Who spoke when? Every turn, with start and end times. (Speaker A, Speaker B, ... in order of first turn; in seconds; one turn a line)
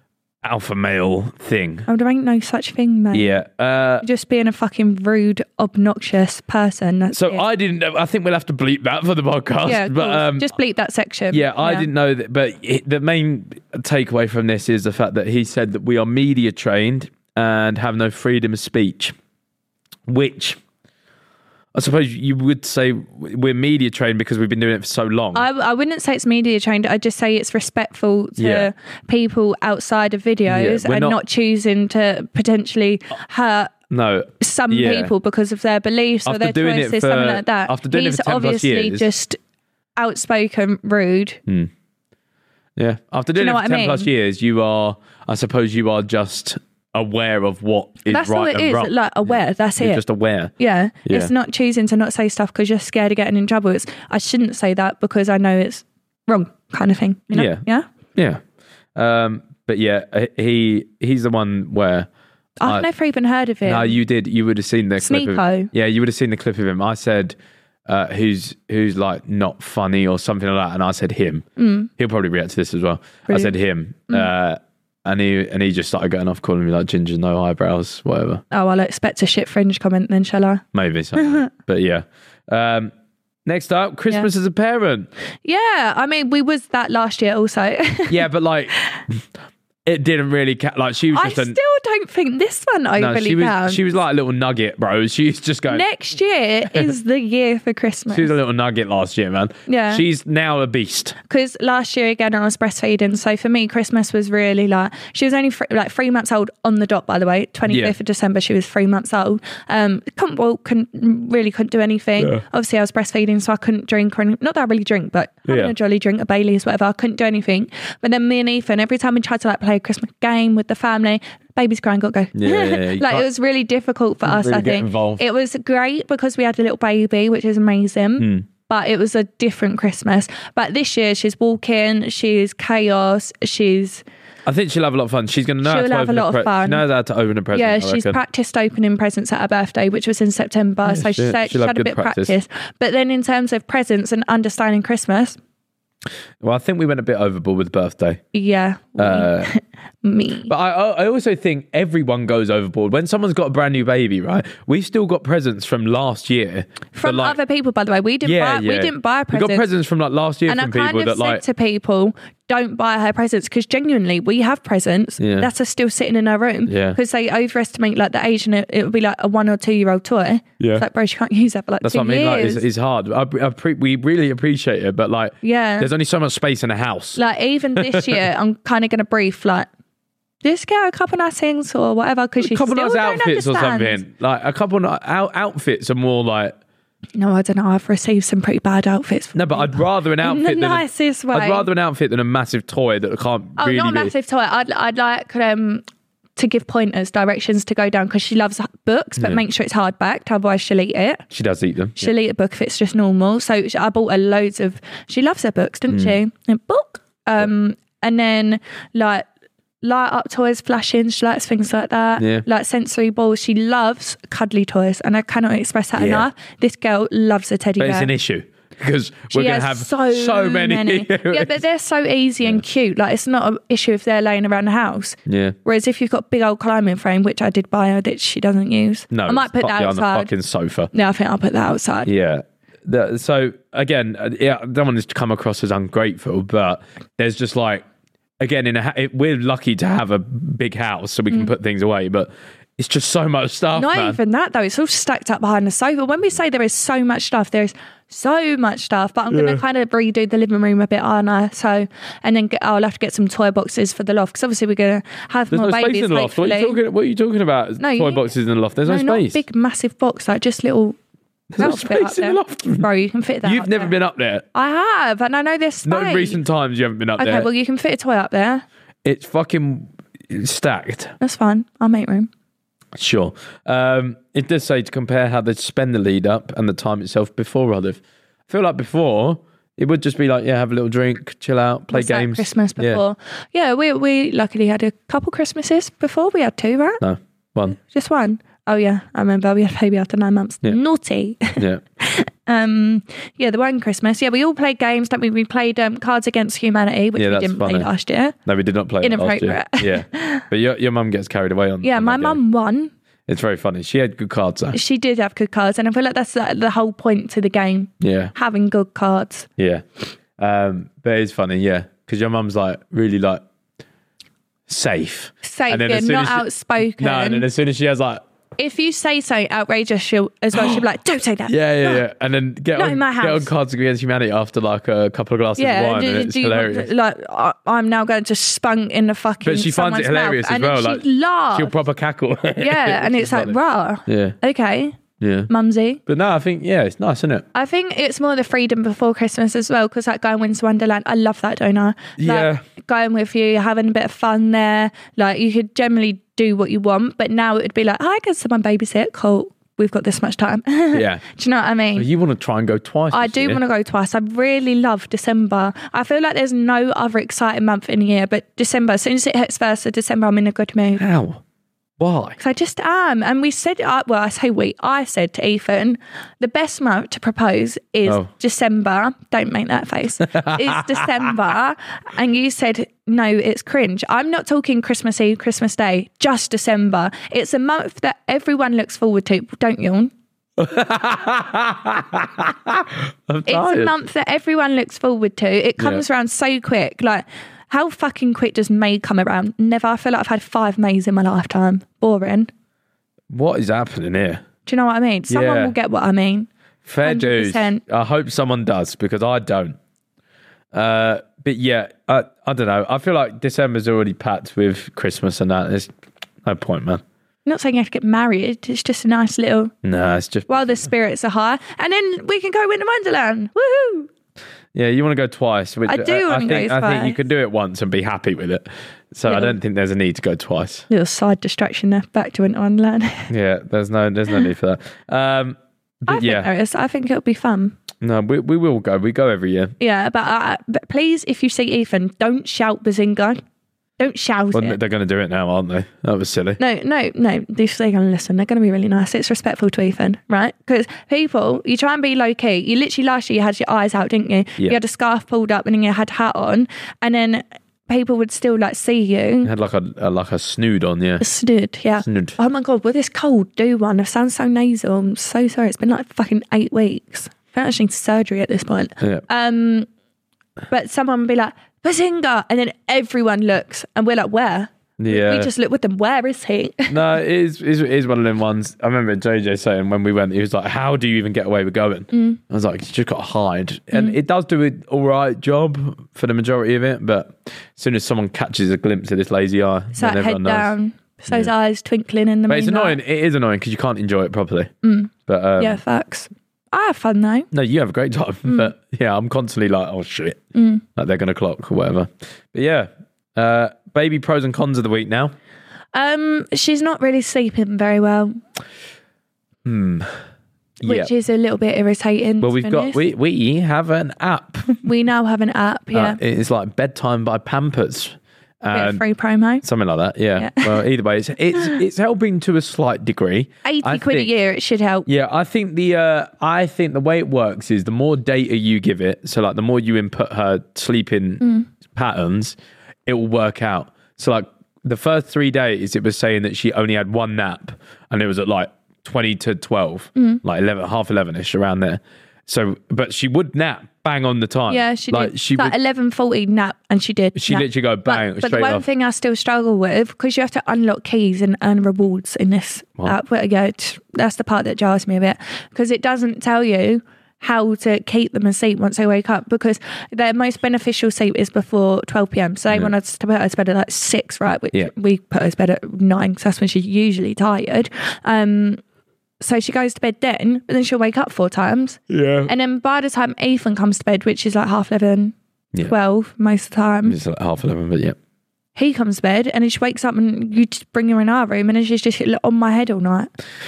Speaker A: 0.4-1.9
Speaker B: 1.9-3.4
Speaker A: 3.1-4.0
Speaker B: 4.0-7.4
Speaker A: 7.1-10.5
Speaker B: 9.7-11.9
Speaker A: 11.3-19.1
Speaker A: 20.1-20.6
Speaker A: 21.7-25.5
Speaker B: 25.4-33.8
Speaker A: 28.4-28.7
Speaker A: 30.5-31.2
Speaker A: 33.9-35.1
Speaker B: 34.4-39.4
Speaker A: 36.3-39.1
Speaker B: 40.0-41.4
Speaker A: 42.8-50.5
Speaker B: 43.4-44.1
Speaker B: 48.1-50.0
Speaker B: 50.6-57.9
Speaker A: 51.1-51.3
Speaker A: 57.3-57.6
Speaker A: 58.1-58.4
Speaker A: 59.0-62.1
Speaker B: 62.6-64.0
Speaker A: 63.6-67.4
Speaker B: 65.0-65.7
Speaker A: 67.9-71.5
Speaker B: 71.6-71.9
Speaker A: 72.0-78.4
Speaker B: 73.3-73.5
Speaker B: 78.5-80.6
Speaker A: 80.7-82.9
Speaker B: 81.2-81.5
Speaker A: 83.5-85.1
Speaker B: 85.5-88.2
Speaker A: 88.1-89.2
Speaker A: 89.9-91.6
Speaker B: 91.1-93.8
Speaker A: 93.0-95.9
Speaker B: 95.7-98.3
Speaker A: 98.1-101.2
Speaker B: 99.7-100.0
Speaker B: 101.3-134.0
Speaker A: 107.7-108.0
Speaker A: 115.5-115.7
Speaker A: 122.4-123.3
Speaker A: 124.2-125.2
Speaker A: 128.2-128.5
Speaker A: 134.4-138.2
Speaker B: 135.6-136.8
Speaker B: 137.5-145.4
Speaker A: 140.8-142.4
Speaker A: 146.4-148.2
Speaker B: 148.3-150.5
Speaker A: 149.0-149.5
Speaker A: 150.5-157.4
Speaker B: 156.9-159.7
Speaker A: 158.2-161.4
Speaker B: 160.5-172.7
Speaker A: 165.2-165.5
Speaker A: 166.7-167.0
Speaker A: 170.6-170.8
Speaker A: 171.8-177.2
Speaker B: 175.4-175.9
Speaker B: 177.2-179.7
Speaker A: 177.8-178.2
Speaker B: 180.4-184.0
Speaker A: 182.4-186.6
Speaker B: 187.2-191.7
Speaker A: 189.3-194.1
Speaker B: 193.6-195.8
Speaker B: 196.4-201.2
Speaker A: 201.3-202.1
Speaker B: 202.0-209.3
Speaker A: 205.9-206.2
Speaker B: 209.8-218.1
Speaker A: 212.2-212.4
Speaker A: 215.9-216.3
Speaker A: 217.8-221.6
Speaker B: 219.3-230.3
Speaker A: 225.3-225.6
Speaker A: 229.1-230.9
Speaker B: 230.9-232.1
Speaker A: 232.0-237.8
Speaker A: 238.4-244.2
Speaker B: 243.8-256.8
Speaker A: 249.3-249.6
Speaker A: 255.5-259.4
Speaker B: 257.8-258.3
Speaker B: 258.9-261.0
Speaker A: 261.5-262.9
Speaker B: 261.6-263.9
Speaker A: 263.4-264.4
Speaker B: 264.5-266.4
Speaker A: 265.9-267.5
Speaker B: 267.2-268.6
Speaker A: 269.1-271.1
Speaker B: 271.2-272.3
Speaker A: 273.0-283.0
Speaker B: 281.9-287.0
Speaker A: 287.0-287.8
Speaker B: 287.8-298.4
Speaker A: 291.6-291.8
Speaker A: 297.2-297.9
Speaker A: 298.5-302.4
Speaker B: 299.0-300.4
Speaker B: 301.8-302.9
Speaker A: 303.3-304.8
Speaker B: 304.7-309.5
Speaker A: 308.0-308.3
Speaker A: 309.6-309.9
Speaker A: 310.4-313.4
Speaker A: 314.7-318.2
Speaker B: 315.4-317.5
Speaker B: 318.6-322.0
Speaker A: 320.5-320.8
Speaker A: 321.5-326.9
Speaker B: 322.8-323.5
Speaker B: 325.6-331.8
Speaker A: 329.4-333.6
Speaker B: 332.6-336.0
Speaker A: 334.1-334.4
Speaker A: 335.2-335.5
Speaker A: 336.1-337.5
Speaker B: 337.6-352.1
Speaker A: 342.2-342.6
Speaker A: 350.9-351.2
Speaker A: 351.9-353.6
Speaker B: 353.1-361.0
Speaker A: 361.0-361.4
Speaker A: 362.0-362.4
Speaker B: 362.4-380.1
Speaker A: 370.3-371.1
Speaker A: 380.6-383.9
Speaker B: 383.5-392.5
Speaker A: 385.8-386.1
Speaker A: 393.3-394.4
Speaker B: 394.7-396.5
Speaker A: 395.3-395.7
Speaker A: 396.9-399.8
Speaker B: 397.0-397.8
Speaker A: 400.7-405.9
Speaker A: 406.4-407.0
Speaker B: 407.5-409.8
Speaker A: 409.8-410.9
Speaker B: 410.5-414.1
Speaker A: 414.7-420.9
Speaker B: 415.9-417.2
Speaker B: 419.3-419.6
Speaker B: 420.9-423.3
Speaker A: 423.3-426.5
Speaker B: 426.1-427.8
Speaker A: 428.0-429.7
Speaker B: 429.8-433.4
Speaker B: 434.0-434.8
Speaker A: 434.5-436.6
Speaker B: 436.6-449.5
Speaker A: 449.4-451.2
Speaker B: 451.2-459.9
Speaker A: 452.0-452.4
Speaker B: 460.7-467.0
Speaker A: 465.0-465.5
Speaker A: 466.9-480.7
Speaker B: 472.1-472.4
Speaker B: 479.9-483.0
Speaker A: 482.5-484.7
Speaker B: 484.8-487.5
Speaker A: 485.3-485.8
Speaker A: 487.5-490.4
Speaker B: 490.6-490.9
Speaker A: 491.0-495.3
Speaker B: 495.9-498.4
Speaker A: 499.6-500.1
Speaker A: 500.8-501.1
Speaker B: 500.8-503.0
Speaker A: 502.4-504.9
Speaker B: 504.8-506.2
Speaker A: 505.9-509.0
Speaker B: 508.7-509.6
Speaker A: 509.6-514.3
Speaker B: 510.4-510.8
Speaker B: 513.6-515.1
Speaker A: 515.1-521.4
Speaker B: 521.4-521.7
Speaker A: 521.9-522.6
Speaker A: 523.1-535.8
Speaker B: 534.7-558.8
Speaker A: 537.4-538.9
Speaker B: 559.4-567.2
Speaker A: 562.1-562.5
Speaker A: 567.0-568.2
Speaker B: 568.8-573.3